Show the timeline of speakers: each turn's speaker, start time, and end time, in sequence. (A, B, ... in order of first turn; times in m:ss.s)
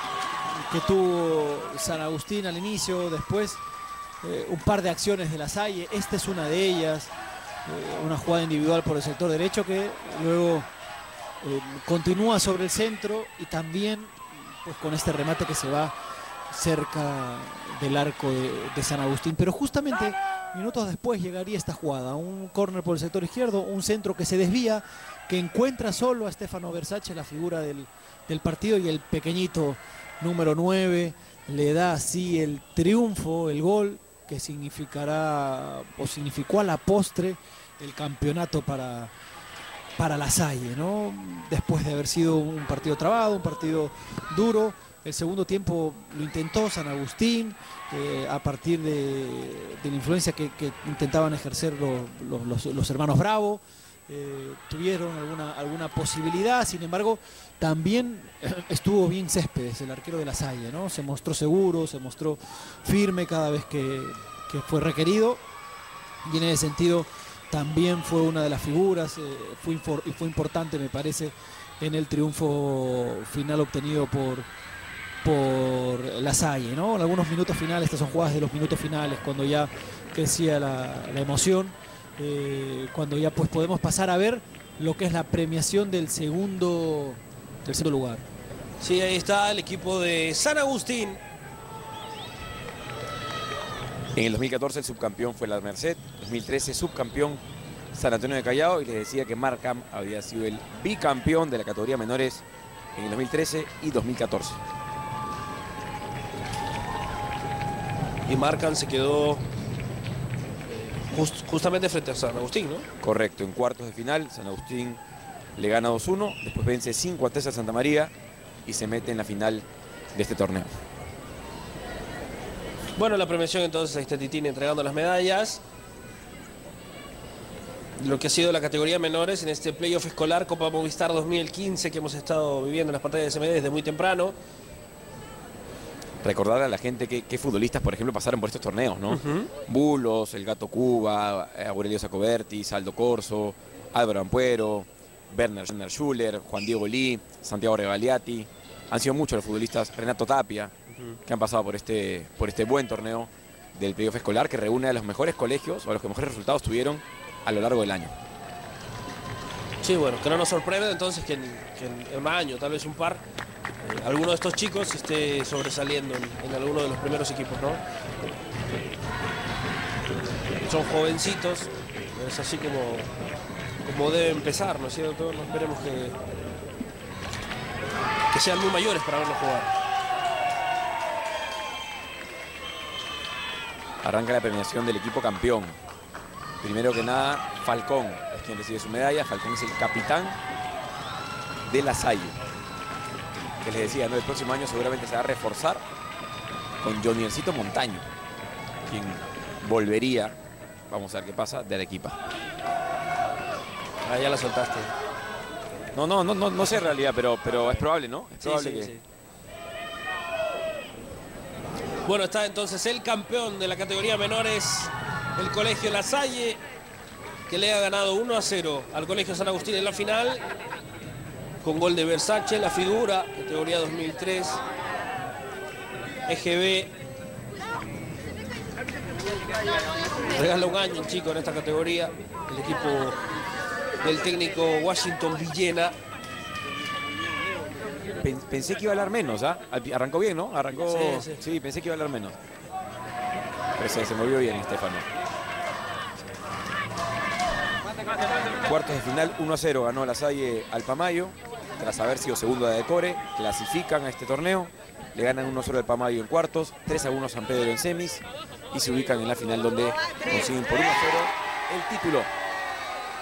0:00.5-0:03.6 A
0:04.2-0:07.1 A
0:07.6-0:10.7 A
0:11.4-0:15.9 A
0:16.5-0:39.1 A
0:40.0-1:05.4 A
1:06.2-1:14.5 A
1:15.2-1:28.2 A
1:28.8-1:31.2 B
1:34.1-1:37.4 C
1:37.9-1:42.4 C
1:43.0-1:44.6 C
1:48.3-1:49.4 B
1:50.8-1:52.9 B
1:53.0-1:55.0 C
1:55.6-1:58.1 C
1:58.6-2:00.7 C
2:03.0-2:05.6 B
2:08.0-2:14.4 B
2:16.2-2:30.7 C
2:19.1-2:19.5 B
2:31.2-2:38.2 C
2:39.8-2:43.2 B
2:43.8-2:47.8 B
2:50.7-2:53.1 B
2:53.8-2:56.2 B
2:58.3-2:59.7 B
3:04.0-3:05.8 C
3:06.6-3:10.4 C
3:11.7-3:12.4 C
3:13.6-3:15.8 C
3:16.8-3:18.1 C
3:18.8-3:20.4 C
3:20.9-3:22.2 C
3:24.0-3:24.9 B
3:25.9-3:28.9 C
3:28.4-3:29.0 B
3:32.0-3:36.6 B
3:37.5-3:40.4 B
3:41.6-3:44.6 B
3:46.3-3:46.9 B
3:50.3-3:53.2 B
3:54.0-3:56.0 B
3:58.2-4:02.4 C
4:00.8-4:01.4 B
4:03.8-4:05.1 C
4:08.6-4:22.3 C